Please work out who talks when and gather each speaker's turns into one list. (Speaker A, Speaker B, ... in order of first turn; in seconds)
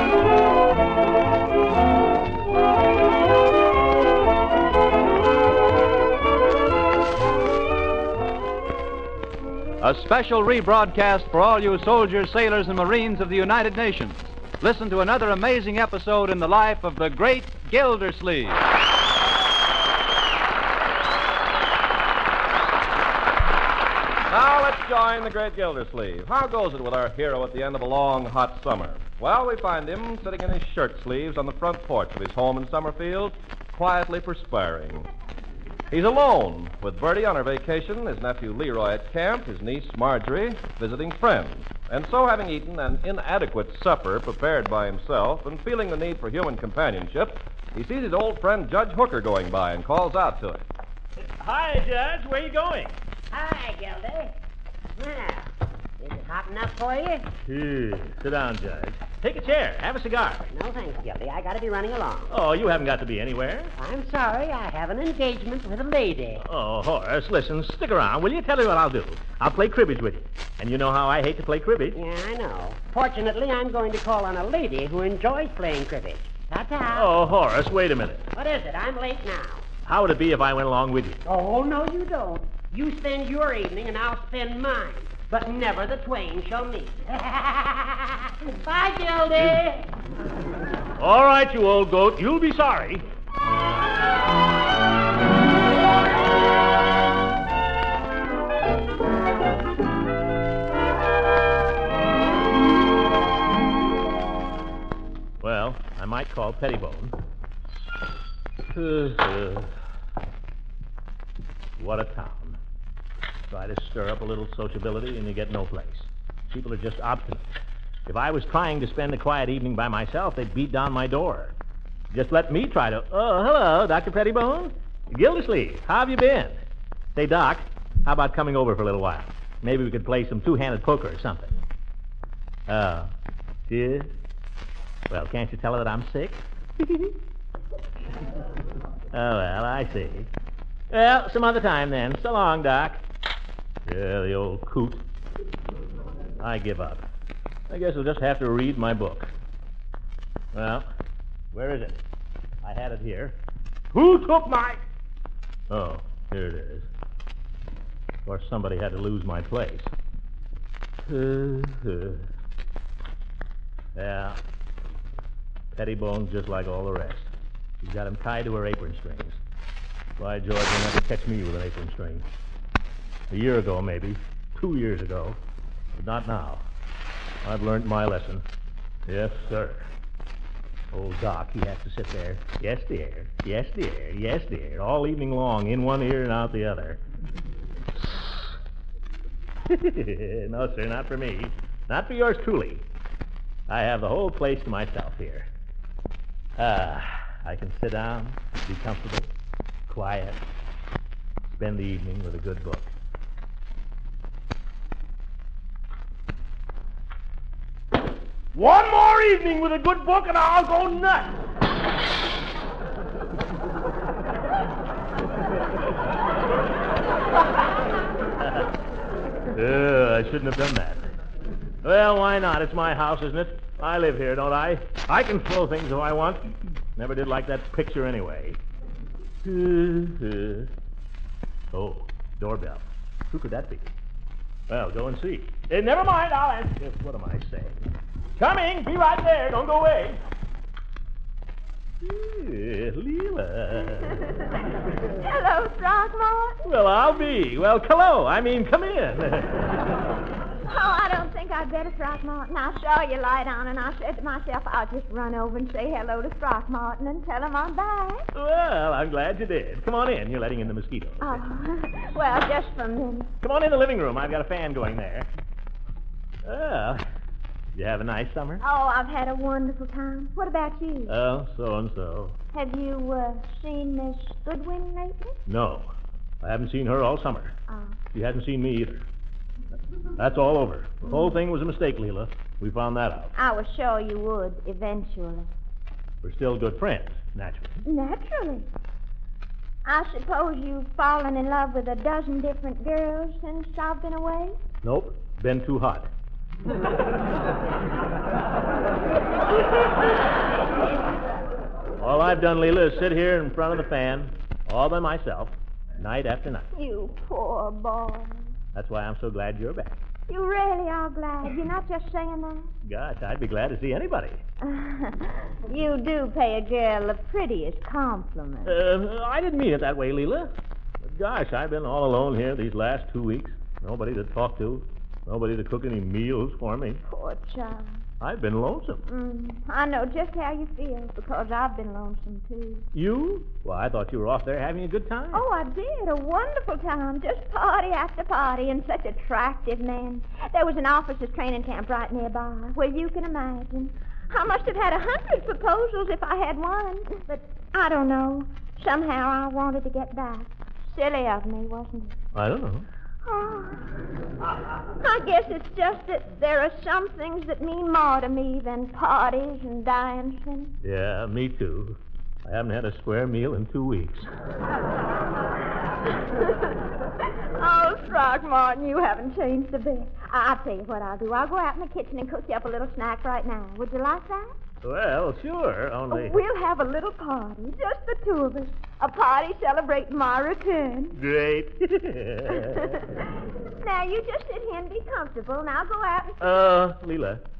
Speaker A: 9.8-18.6
Speaker B: 24.3-35.1, 35.9-50.6
Speaker C: 51.2-53.0, 57.4-60.5, 62.3-63.7, 66.4-72.0, 76.9-78.3, 79.8-81.2, 89.3-89.6, 91.0-93.0, 105.4-107.2, 108.7-109.7, 111.8-112.6, 113.5-121.5, 122.1-126.6, 127.1-131.6, 132.7-133.1, 133.7-134.1, 135.1-137.1, 139.1-140.3, 140.9-143.0, 143.8-145.0, 146.4-147.0, 147.7-149.3, 150.5-150.9, 151.5-152.0, 152.6-153.4, 153.9-154.8, 155.7-156.9, 158.2-159.9, 161.1-162.3, 163.9-164.4, 165.7-169.4, 170.2-172.3, 173.3-175.4, 176.0-176.6, 177.4-178.4, 179.1-179.9, 180.9-187.0, 187.9-188.6, 189.7-192.8, 193.7-195.5, 196.6-199.3, 199.9-200.4, 201.4-202.9, 208.5-211.4, 218.4-218.7, 219.5-221.1, 221.8-228.6, 229.4-230.7, 231.7-233.9, 234.7-237.8, 238.3-240.2, 242.0-244.3, 246.6-249.8, 258.3-261.4, 263.4-265.3, 266.4-267.0, 267.7-268.6, 271.1-272.4, 275.4-277.5, 278.1-279.1, 280.2-283.3, 286.2-287.8, 294.8-296.1, 302.0-306.7, 308.7-310.0, 312.8-314.4, 318.6-320.5, 321.0-327.0, 328.2-329.0, 332.9-335.4, 352.3-352.9, 360.8-364.3, 374.8-376.4, 381.1-383.0, 386.4-387.4
Speaker D: 53.3-54.3, 55.0-57.3, 60.5-62.3, 63.8-66.4, 71.9-77.1, 78.3-79.7, 81.2-89.9
Speaker E: 245.2-246.6, 250.7-258.2, 261.2-263.3, 268.6-271.1, 272.5-275.4, 277.7-278.0, 281.1-281.4, 283.4-285.5, 287.9-288.7, 289.8-294.6, 306.7-308.5, 310.3-312.7, 314.6-318.8, 327.1-328.0, 329.1-332.8, 335.3-352.1, 353.2-353.9, 355.0-360.7, 367.2-374.5, 376.1-381.2, 382.6-386.7